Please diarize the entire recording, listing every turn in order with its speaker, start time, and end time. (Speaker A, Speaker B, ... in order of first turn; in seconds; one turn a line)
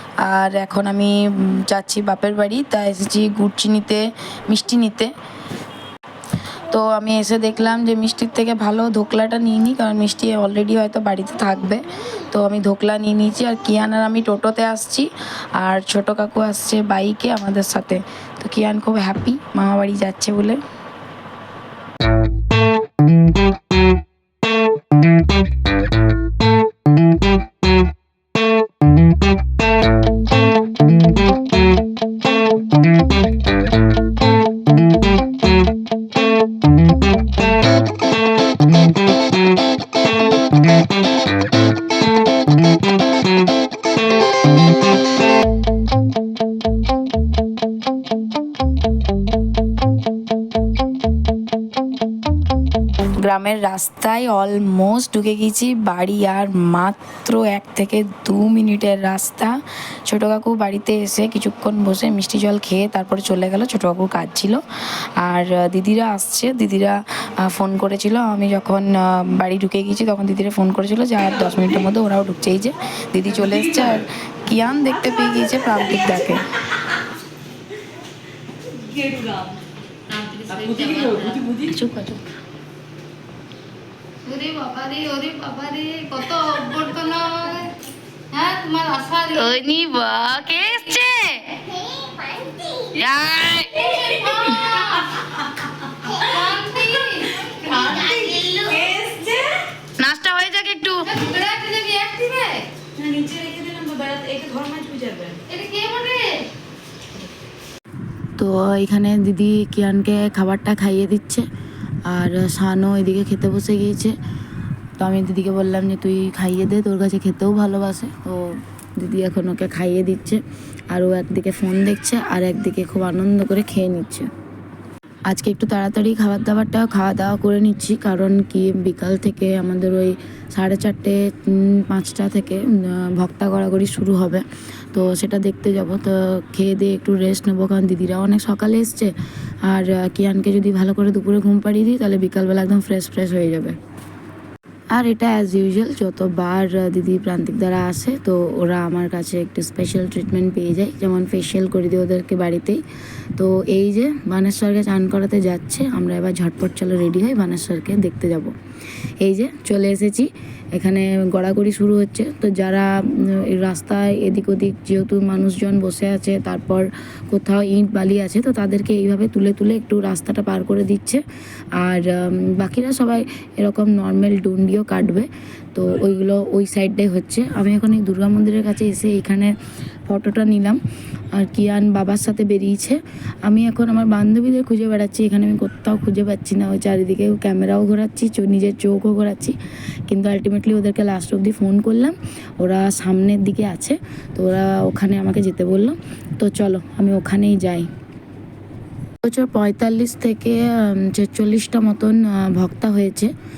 Speaker A: 0.2-5.1
Speaker A: 6.7-20.6
Speaker A: 53.2-64.6
Speaker A: 65.2-76.5
Speaker B: 78.7-79.6
Speaker C: 80.1-81.5
Speaker B: 81.4-81.7
Speaker A: 81.7-82.3
Speaker C: 84.2-87.8
Speaker C: 88.3-89.6
Speaker A: 89.4-91.5
Speaker C: 91.5-92.9
Speaker A: 93.0-93.8
Speaker C: 93.7-95.1
Speaker C: 96.0-98.9
Speaker B: 97.4-99.9
Speaker C: 100.0-102.7
Speaker A: 100.0-100.9
Speaker B: 103.0-105.5
Speaker C: 105.5-106.5
Speaker A: 108.4-111.5
Speaker A: 112.1-114.2
Speaker A: 115.0-124.3
Speaker A: 125.3-139.1
Speaker A: 139.6-143.8
Speaker A: 144.9-152.8
Speaker A: 153.3-158.5
Speaker A: 159.2-171.2
Speaker A: 171.8-179.5
Speaker A: 180.1-180.8
Speaker A: 181.3-189.6
Speaker A: 190.1-197.9
Speaker A: 199.2-203.3